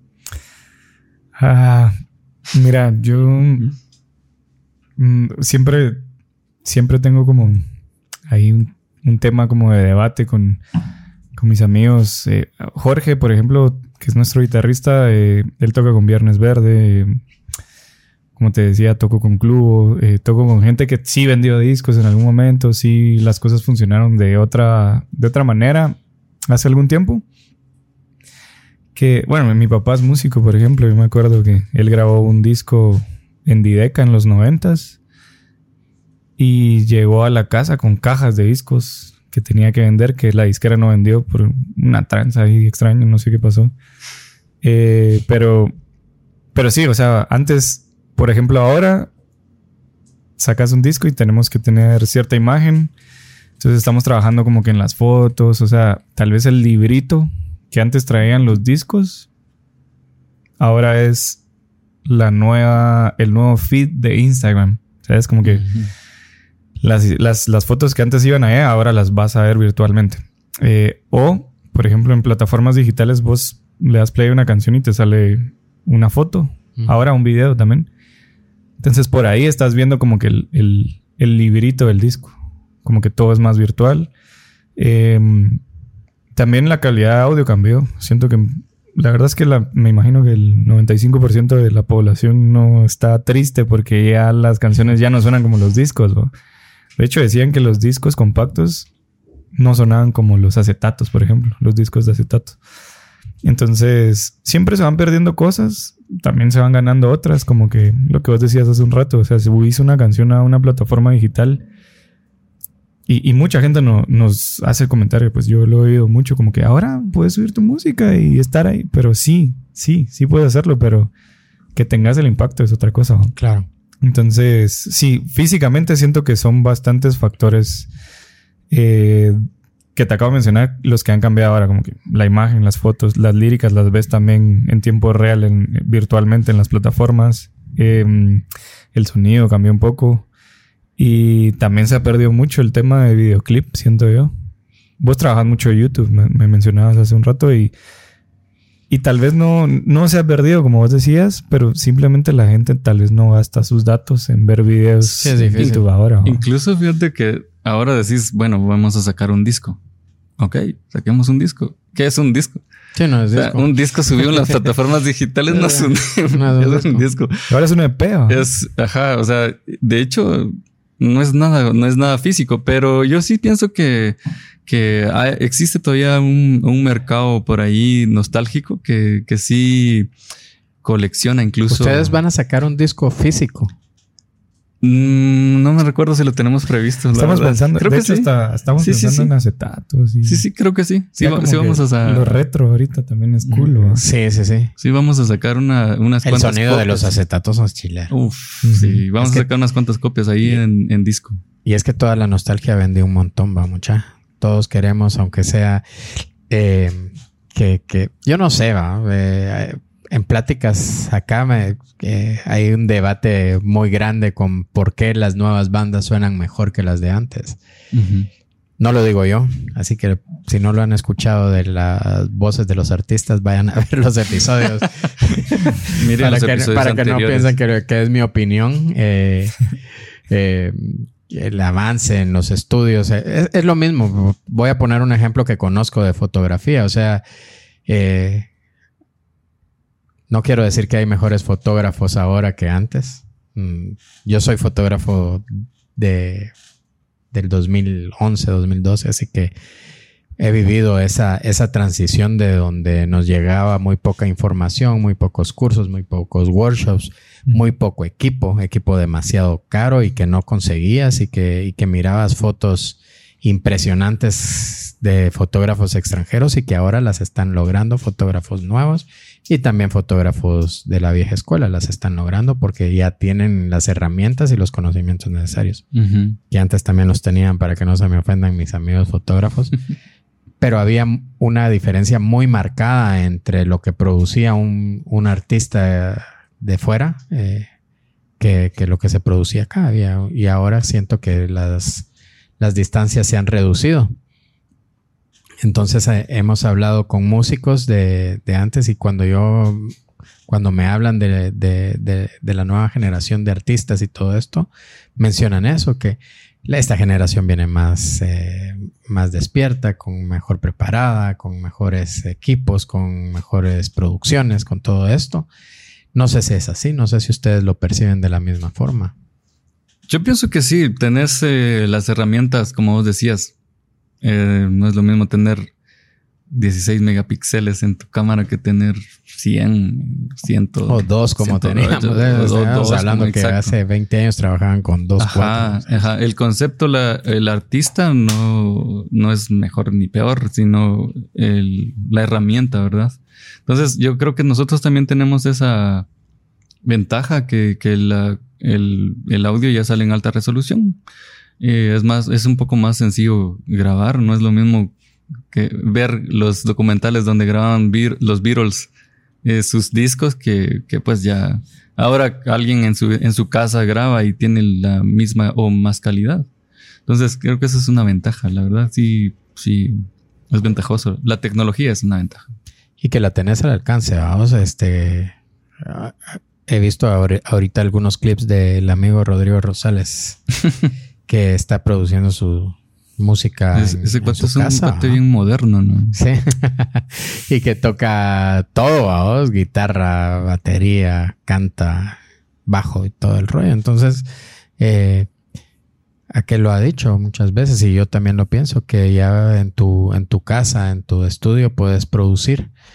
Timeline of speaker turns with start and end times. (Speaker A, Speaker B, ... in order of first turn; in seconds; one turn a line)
Speaker A: 1.4-2.0
Speaker A: 2.5-3.7
Speaker A: 5.0-6.0
Speaker A: 6.6-7.6
Speaker A: 8.3-10.6
Speaker A: 11.3-17.2
Speaker A: 18.4-26.0
Speaker A: 26.5-27.2
Speaker A: 28.9-35.0
Speaker A: 36.4-43.7
Speaker A: 44.6-45.7
Speaker A: 46.5-49.1
Speaker A: 50.4-52.9
Speaker A: 53.6-59.3
Speaker A: 60.6-61.4
Speaker A: 62.0-65.7
Speaker B: 65.5-65.9
Speaker A: 66.8-77.9
Speaker A: 78.8-84.1
Speaker A: 84.8-85.6
Speaker A: 86.3-96.3
Speaker A: 97.0-98.9
Speaker A: 99.5-102.5
Speaker A: 103.4-111.6
Speaker A: 113.1-121.1
Speaker A: 121.7-123.3
Speaker C: 123.3-123.7
Speaker A: 124.0-127.9
Speaker A: 128.7-129.4
Speaker A: 129.9-140.3
Speaker A: 141.0-144.3
Speaker A: 145.0-147.7
Speaker A: 148.9-156.4
Speaker C: 155.1-155.8
Speaker B: 155.6-159.8
Speaker B: 160.4-162.6
Speaker C: 162.9-164.4
Speaker B: 163.3-167.5
Speaker C: 165.5-167.0
Speaker A: 167.5-168.4
Speaker B: 168.3-180.1
Speaker B: 180.8-182.2
Speaker C: 181.7-183.7
Speaker B: 184.8-188.3
Speaker A: 187.1-190.4
Speaker B: 188.8-189.3
Speaker B: 190.2-192.3
Speaker A: 191.2-194.0
Speaker B: 193.4-193.7
Speaker C: 193.9-194.7
Speaker B: 194.8-197.2
Speaker C: 196.2-198.1
Speaker B: 198.1-201.4
Speaker C: 198.6-199.4
Speaker C: 201.6-217.6
Speaker B: 217.9-218.3
Speaker C: 218.8-229.7
Speaker B: 225.8-227.5
Speaker C: 230.3-237.2
Speaker C: 237.9-238.5
Speaker C: 240.3-246.5
Speaker C: 247.3-249.5
Speaker C: 250.4-275.8
Speaker B: 275.9-276.4
Speaker C: 276.5-279.8
Speaker C: 280.6-287.7
Speaker C: 288.4-292.1
Speaker C: 292.6-294.1
Speaker C: 295.6-299.9
Speaker C: 300.5-315.5
Speaker C: 316.1-319.1
Speaker B: 320.1-323.5
Speaker B: 324.2-325.7
Speaker B: 326.5-333.7
Speaker C: 330.9-336.1
Speaker B: 335.2-346.1
Speaker B: 346.8-351.0
Speaker B: 351.6-354.9
Speaker B: 355.5-358.9
Speaker B: 359.4-366.5
Speaker B: 367.1-372.5
Speaker C: 373.0-380.4
Speaker C: 381.3-385.2
Speaker B: 383.7-386.1
Speaker C: 386.1-394.3
Speaker C: 394.8-395.3
Speaker C: 396.3-402.7